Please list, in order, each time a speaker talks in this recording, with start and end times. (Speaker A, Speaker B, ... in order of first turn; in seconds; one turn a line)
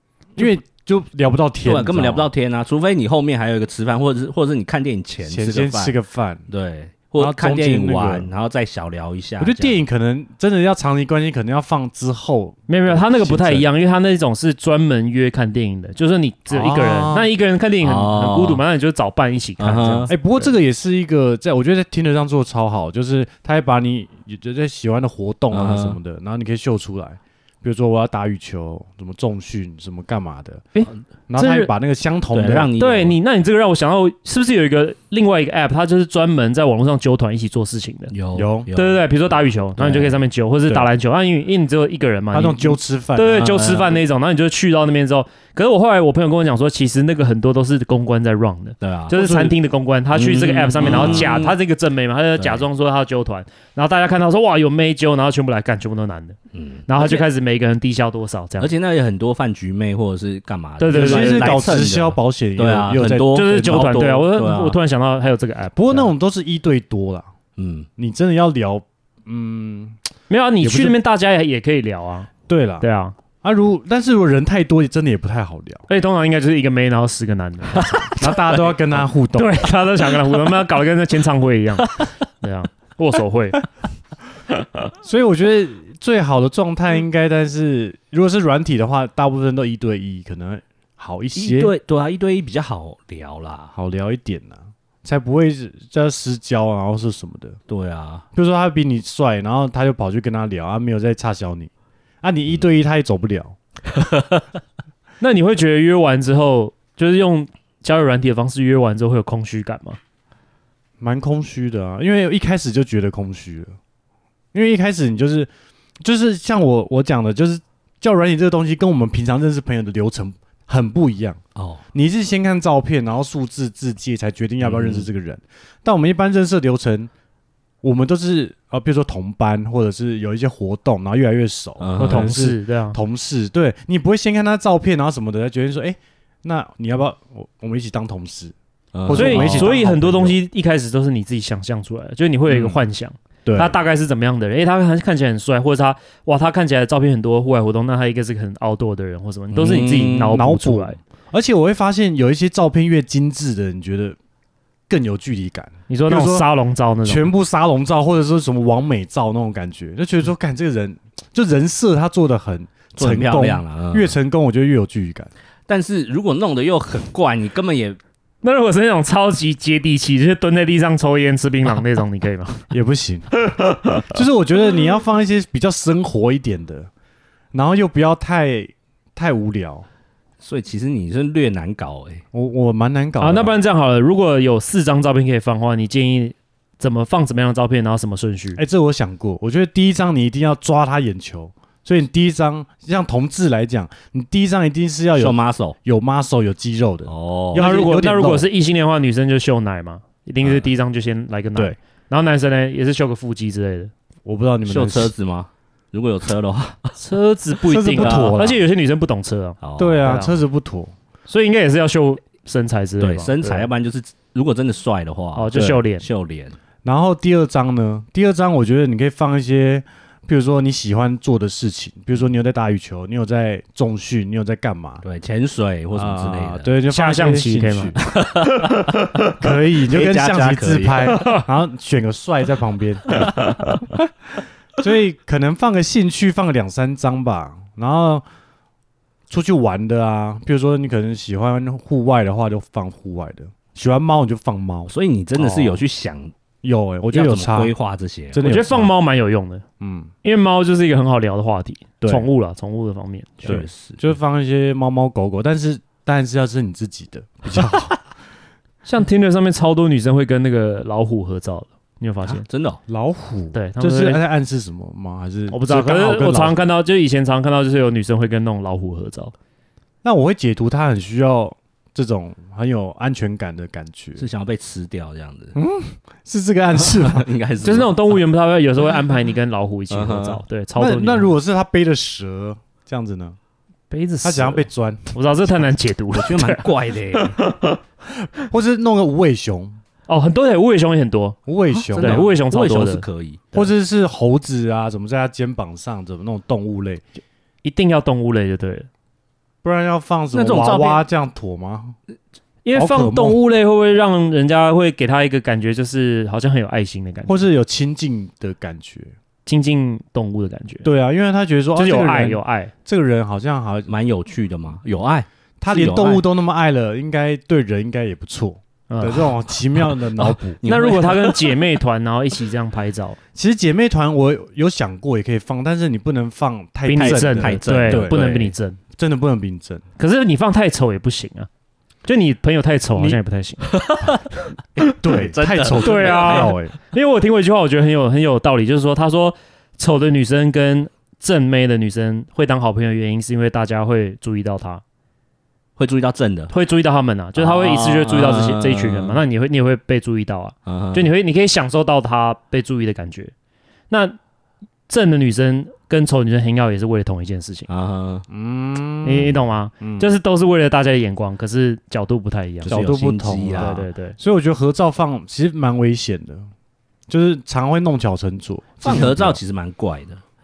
Speaker A: 0.4-2.3
Speaker B: 1.6-6.0
Speaker A: 5.3-6.5
Speaker B: 6.5-9.8
Speaker A: 7.2-8.3
Speaker A: 9.4-13.7
Speaker C: 12.7-20.5
Speaker A: 16.5-17.3
Speaker B: 17.8-18.6
Speaker B: 19.6-20.1
Speaker A: 20.1-30.6
Speaker B: 25.5-26.0
Speaker C: 30.8-31.7
Speaker A: 31.3-32.7
Speaker B: 32.3-33.2
Speaker C: 32.8-38.1
Speaker B: 38.1-39.1
Speaker A: 38.3-38.7
Speaker C: 38.7-56.4
Speaker B: 39.8-40.2
Speaker A: 42.3-43.6
Speaker B: 43.4-44.0
Speaker B: 48.8-49.2
Speaker A: 49.2-49.5
Speaker B: 50.1-51.5
Speaker A: 50.8-51.3
Speaker B: 52.4-52.6
Speaker B: 56.5-57.3
Speaker C: 56.9-58.7
Speaker B: 58.6-64.8
Speaker C: 60.8-61.6
Speaker A: 60.9-64.1
Speaker C: 63.3-66.1
Speaker A: 65.8-67.3
Speaker B: 67.6-67.9
Speaker A: 68.0-70.0
Speaker C: 70.3-72.3
Speaker A: 70.6-71.0
Speaker A: 72.5-72.8
Speaker C: 72.8-73.2
Speaker A: 73.4-75.9
Speaker C: 75.9-78.3
Speaker A: 78.0-79.7
Speaker B: 78.5-78.8
Speaker C: 79.3-83.6
Speaker B: 81.8-82.1
Speaker A: 85.0-91.7
Speaker B: 91.3-93.7
Speaker A: 93.7-97.6
Speaker B: 97.7-98.2
Speaker A: 98.3-101.7
Speaker A: 102.2-103.6
Speaker B: 103.9-104.4
Speaker C: 105.2-110.0
Speaker A: 111.0-113.8
Speaker A: 114.5-115.5
Speaker A: 116.0-121.4
Speaker B: 121.6-121.8
Speaker A: 121.9-127.1
Speaker B: 124.6-125.1
Speaker A: 127.8-138.5
Speaker B: 131.8-132.3
Speaker C: 132.0-133.0
Speaker B: 138.9-139.8
Speaker A: 139.1-140.4
Speaker C: 139.1-151.0
Speaker B: 142.5-142.8
Speaker A: 143.4-143.8
Speaker B: 149.5-150.4
Speaker A: 150.3-154.2
Speaker A: 154.9-156.5
Speaker C: 155.9-157.3
Speaker A: 157.1-165.3
Speaker B: 163.0-164.2
Speaker B: 165.7-168.0
Speaker C: 168.4-172.7
Speaker A: 172.7-173.3
Speaker C: 173.4-174.1
Speaker A: 174.1-176.9
Speaker A: 177.5-179.9
Speaker B: 180.4-182.2
Speaker A: 182.3-183.5
Speaker C: 183.2-188.6
Speaker A: 188.6-198.5
Speaker B: 195.2-195.8
Speaker B: 197.1-197.7
Speaker C: 197.5-203.9
Speaker A: 204.2-205.1
Speaker B: 204.7-206.9
Speaker C: 207.0-210.4
Speaker A: 207.7-208.6
Speaker B: 208.0-208.4
Speaker B: 209.6-210.0
Speaker A: 209.8-210.9
Speaker C: 211.3-213.7
Speaker B: 213.0-216.6
Speaker C: 215.3-216.1
Speaker A: 216.8-225.0
Speaker B: 225.0-226.7
Speaker A: 225.9-228.0
Speaker C: 226.9-228.0
Speaker B: 228.1-228.8
Speaker C: 228.7-229.3
Speaker A: 229.4-233.3
Speaker B: 229.8-231.2
Speaker C: 231.2-231.4
Speaker C: 233.2-233.8
Speaker A: 234.8-238.2
Speaker A: 239.3-244.9
Speaker B: 244.9-246.3
Speaker A: 246.6-247.7
Speaker B: 247.1-248.4
Speaker A: 248.3-248.9
Speaker C: 248.4-249.7
Speaker A: 249.8-250.1
Speaker C: 250.2-253.5
Speaker A: 252.0-252.3
Speaker B: 253.4-254.1
Speaker A: 253.4-257.9
Speaker C: 258.9-262.4
Speaker B: 262.3-262.8
Speaker A: 262.9-266.6
Speaker C: 263.5-264.2
Speaker C: 265.5-269.3
Speaker A: 270.0-274.2
Speaker B: 274.2-275.6
Speaker A: 275.6-277.3
Speaker B: 276.9-278.0
Speaker C: 277.6-281.3
Speaker B: 279.9-280.4
Speaker A: 280.8-283.4
Speaker C: 283.9-287.8
Speaker A: 284.2-285.1
Speaker B: 286.1-287.4
Speaker A: 288.4-289.8
Speaker C: 290.1-291.4
Speaker A: 291.5-292.3
Speaker B: 291.8-293.5
Speaker C: 292.0-293.1
Speaker A: 293.5-297.0
Speaker C: 297.6-298.9
Speaker A: 299.6-302.0
Speaker B: 300.3-301.1
Speaker C: 302.6-307.4
Speaker A: 302.7-303.4
Speaker A: 307.3-309.1
Speaker C: 309.5-310.9
Speaker A: 310.8-313.9
Speaker C: 311.8-312.7
Speaker B: 313.9-316.2
Speaker A: 315.6-320.6
Speaker C: 318.9-319.3
Speaker B: 320.2-321.6
Speaker C: 320.6-323.2
Speaker A: 323.4-328.3
Speaker C: 326.9-328.8
Speaker B: 327.0-328.5
Speaker A: 329.0-329.8
Speaker C: 330.0-331.5
Speaker C: 332.1-333.7
Speaker B: 333.7-334.2
Speaker B: 334.8-336.6
Speaker A: 335.0-336.7
Speaker C: 335.8-344.8
Speaker B: 345.8-346.5
Speaker C: 346.5-353.3
Speaker B: 347.4-349.2
Speaker B: 350.7-351.1
Speaker C: 353.9-354.2
Speaker C: 354.9-357.7
Speaker B: 357.7-358.3
Speaker A: 358.3-360.1
Speaker C: 359.0-362.8
Speaker B: 362.6-363.9
Speaker A: 362.7-366.5
Speaker C: 363.6-364.2
Speaker A: 367.1-369.4
Speaker B: 368.8-370.2